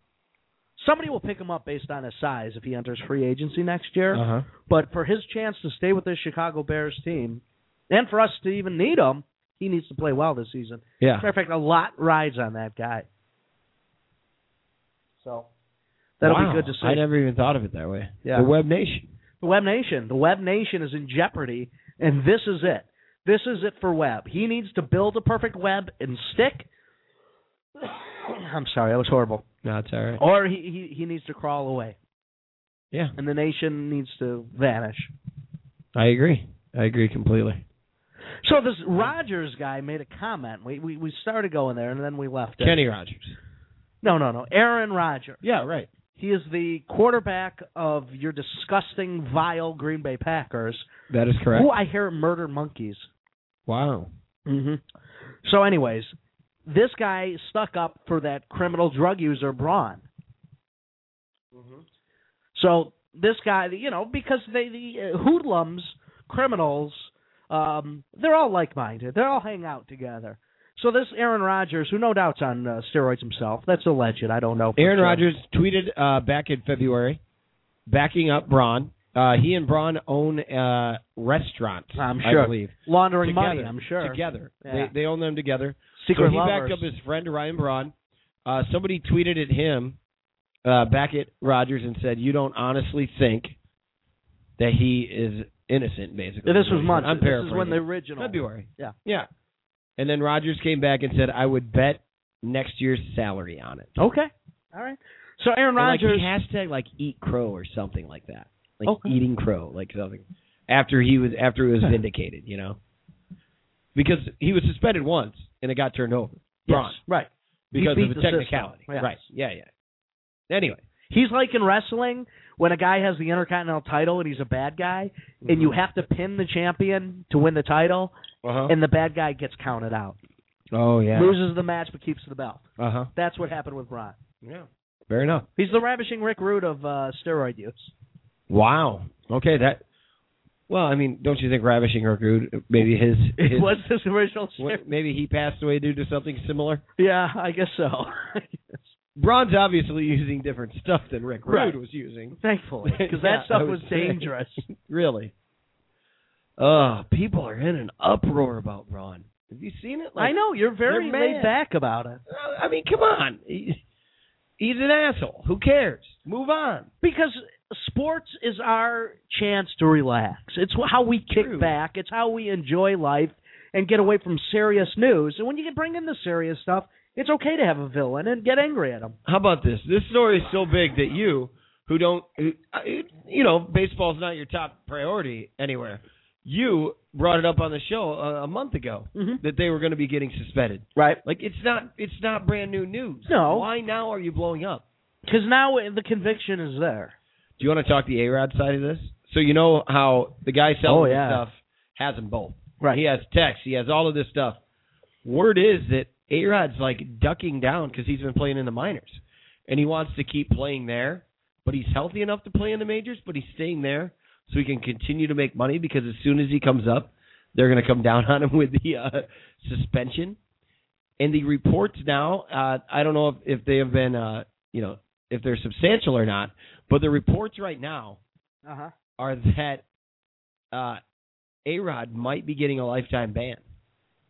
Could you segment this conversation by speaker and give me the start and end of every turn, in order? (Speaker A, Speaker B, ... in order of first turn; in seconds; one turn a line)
Speaker A: 0.8-13.1
Speaker B: 4.1-4.5
Speaker B: 11.0-11.3
Speaker A: 15.2-15.5
Speaker A: 16.2-17.0
Speaker B: 16.2-19.1
Speaker A: 19.4-26.7
Speaker A: 27.8-29.5
Speaker B: 29.6-30.2
Speaker A: 30.2-32.0
Speaker A: 33.2-35.1
Speaker B: 36.0-37.6
Speaker A: 38.4-42.8
Speaker B: 42.6-43.3
Speaker A: 44.0-45.4
Speaker B: 45.4-45.9
Speaker A: 46.1-50.9
Speaker B: 51.1-51.7
Speaker A: 51.5-53.1
Speaker B: 53.7-54.1
Speaker A: 54.5-54.8
Speaker A: 55.4-56.1
Speaker A: 56.7-60.0
Speaker B: 61.5-61.8
Speaker A: 62.5-75.2
Speaker B: 74.8-77.2
Speaker B: 77.9-87.9
Speaker A: 82.0-84.9
Speaker A: 86.0-86.8
Speaker B: 88.5-90.0
Speaker B: 90.7-93.5
Speaker B: 94.6-99.3
Speaker A: 96.5-99.0
Speaker B: 100.0-104.0
Speaker A: 104.0-106.3
Speaker B: 105.8-112.8
Speaker A: 108.9-109.1
Speaker B: 114.0-117.0
Speaker A: 116.7-119.2
Speaker B: 117.7-119.7
Speaker B: 120.5-120.8
Speaker A: 121.1-128.1
Speaker B: 125.5-125.7
Speaker B: 128.4-128.7
Speaker A: 128.7-130.2
Speaker B: 130.7-131.3
Speaker A: 131.1-134.2
Speaker B: 132.8-133.1
Speaker B: 134.4-135.5
Speaker A: 135.6-137.9
Speaker B: 138.5-139.8
Speaker B: 140.7-143.7
Speaker A: 143.4-144.8
Speaker B: 144.6-146.8
Speaker A: 147.0-148.9
Speaker B: 149.2-155.3
Speaker A: 151.5-151.8
Speaker A: 152.4-154.7
Speaker B: 156.6-160.4
Speaker A: 160.2-162.2
Speaker B: 160.9-161.5
Speaker B: 162.3-163.8
Speaker B: 164.6-166.9
Speaker A: 167.0-179.2
Speaker B: 171.3-171.7
Speaker B: 179.3-194.8
Speaker A: 189.2-189.4
Speaker A: 193.3-193.7
Speaker A: 195.3-197.1
Speaker B: 197.6-204.6
Speaker A: 200.8-201.4
Speaker B: 205.2-220.4
Speaker B: 221.2-228.2
Speaker A: 228.7-228.9
Speaker B: 229.2-229.8
Speaker B: 230.7-231.0
Speaker B: 231.7-233.6